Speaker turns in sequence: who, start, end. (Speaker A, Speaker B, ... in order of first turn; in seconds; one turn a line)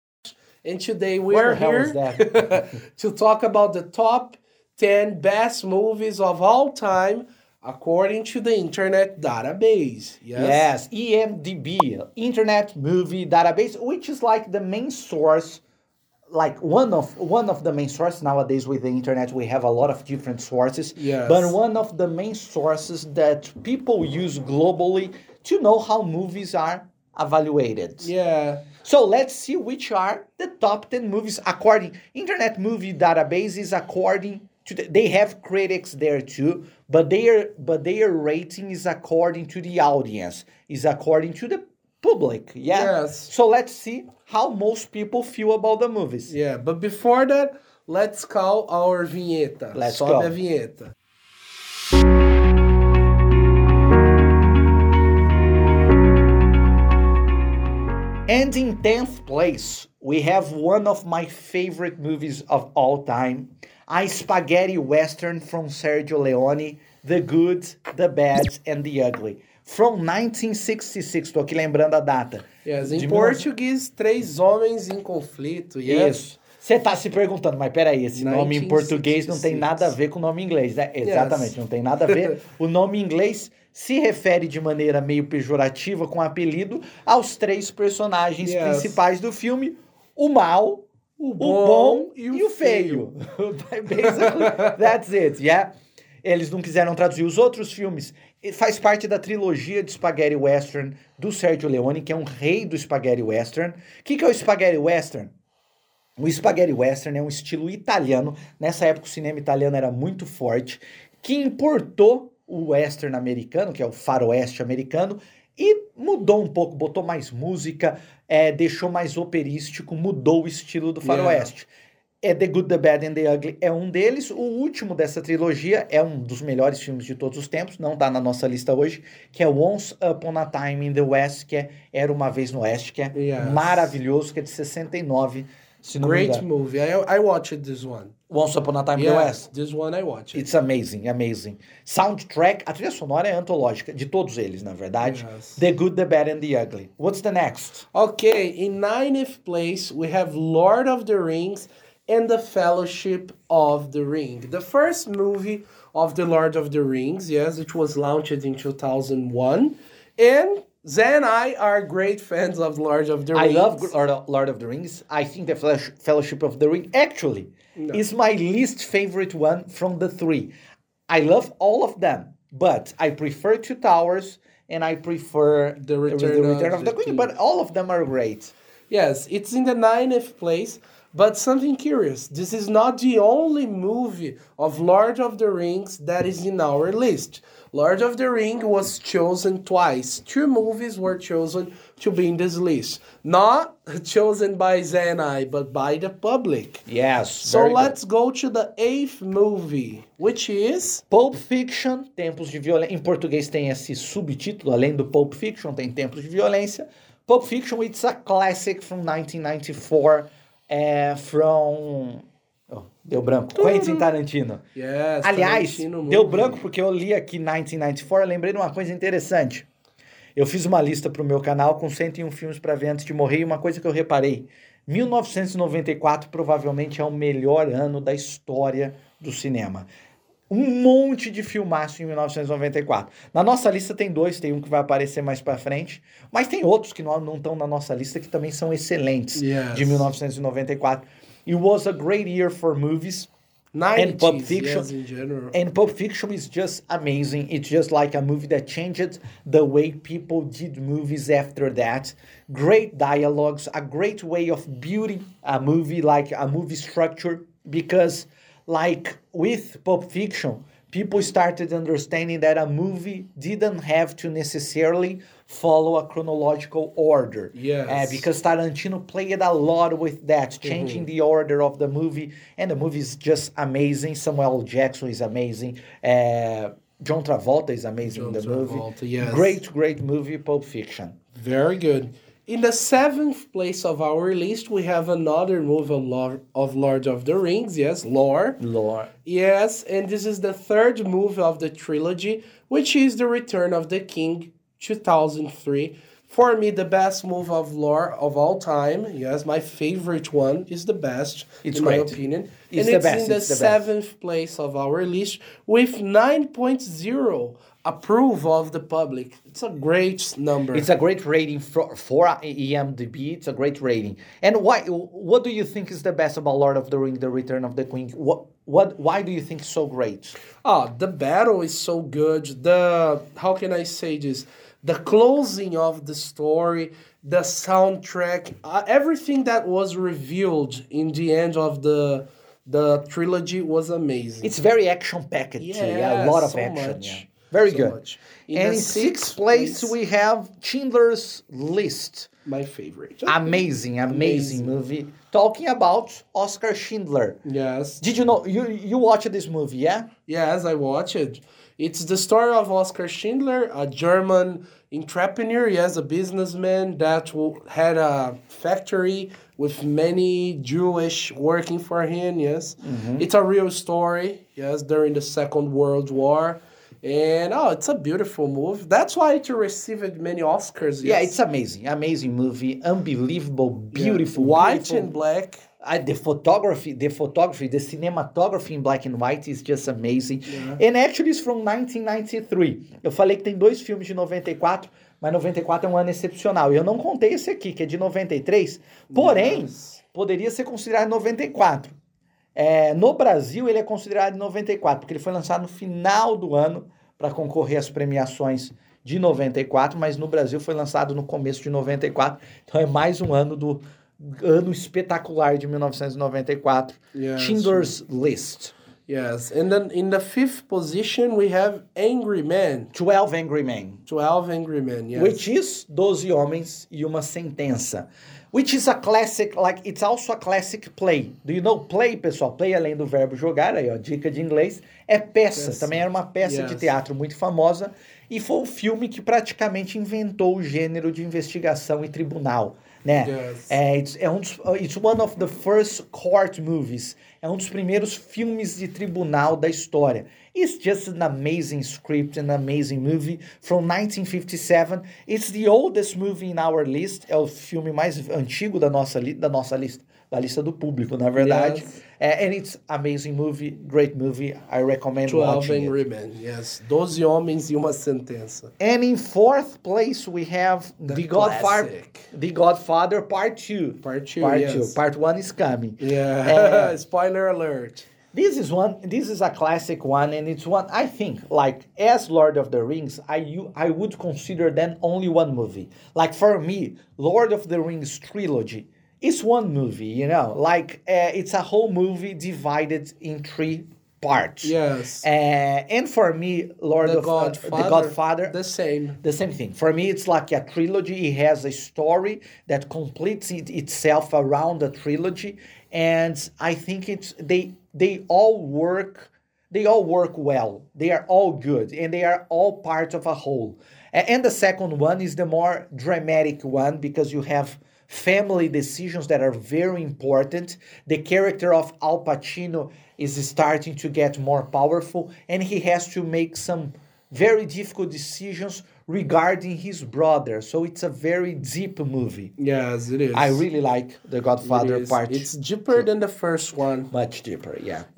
Speaker A: 0.6-10.7
Speaker B: 1.3-2.6
Speaker B: 10.3-15.6
Speaker B: 16.3-28.1
Speaker A: 20.9-21.5
Speaker A: 28.0-28.6
Speaker B: 28.8-46.3
Speaker A: 42.7-43.3
Speaker A: 46.3-50.9
Speaker B: 49.7-50.3
Speaker B: 58.3-73.5
Speaker A: 72.6-76.2
Speaker B: 75.8-90.9
Speaker A: 78.1-79.9
Speaker A: 81.0-81.5
Speaker A: 82.0-82.4
Speaker A: 88.4-89.0
Speaker A: 91.2-93.1
Speaker B: 91.4-95.7
Speaker A: 94.0-94.7
Speaker B: 96.2-105.3
Speaker B: 106.2-121.7
Speaker A: 121.0-121.5
Speaker B: 122.2-136.4
Speaker A: 133.1-133.9
Speaker A: 136.0-138.1
Speaker B: 138.3-139.4
Speaker A: 138.9-140.4
Speaker B: 140.3-147.8
Speaker A: 145.0-145.6
Speaker A: 147.9-163.9
Speaker B: 163.3-170.5
Speaker B: 171.1-178.5
Speaker A: 175.8-177.3
Speaker A: 178.9-196.8
Speaker B: 196.9-197.9
Speaker A: 197.4-201.0
Speaker B: 201.1-214.6
Speaker A: 213.5-214.0
Speaker A: 214.7-216.6
Speaker B: 215.2-219.7
Speaker B: 220.3-229.9
Speaker B: 230.5-243.3
Speaker A: 239.3-240.1
Speaker A: 243.7-245.6
Speaker B: 243.9-244.9
Speaker B: 245.5-281.2
Speaker A: 267.5-268.2
Speaker A: 270.6-271.1
Speaker A: 278.0-279.6
Speaker A: 281.3-288.6
Speaker B: 288.6-289.1
Speaker A: 289.2-310.9
Speaker B: 301.6-302.2
Speaker B: 302.7-303.8
Speaker B: 310.7-320.4
Speaker A: 320.6-334.5
Speaker B: 334.4-338.0
Speaker A: 335.6-339.9
Speaker B: 338.5-342.3
Speaker A: 342.4-344.7
Speaker B: 343.2-347.4
Speaker A: 347.4-348.0
Speaker B: 348.0-350.1
Speaker A: 350.3-371.3
Speaker B: 362.8-363.2
Speaker B: 371.0-375.1
Speaker A: 373.9-375.6
Speaker B: 375.8-392.0
Speaker A: 380.5-380.8
Speaker A: 389.1-390.0
Speaker B: 392.5-408.7
Speaker A: 407.1-407.9
Speaker A: 409.1-412.9
Speaker B: 412.9-414.0
Speaker A: 414.1-415.4
Speaker B: 415.1-455.9
Speaker A: 425.5-426.9
Speaker A: 433.2-433.7
Speaker A: 451.4-452.0
Speaker A: 455.2-458.7
Speaker B: 458.8-466.9
Speaker A: 461.1-462.3
Speaker A: 464.0-465.0
Speaker A: 466.0-468.1
Speaker B: 468.3-488.6
Speaker A: 484.6-485.3
Speaker A: 487.0-489.2
Speaker B: 489.2-522.5
Speaker A: 522.6-523.6
Speaker B: 523.3-526.1
Speaker A: 524.6-527.1
Speaker B: 527.1-528.0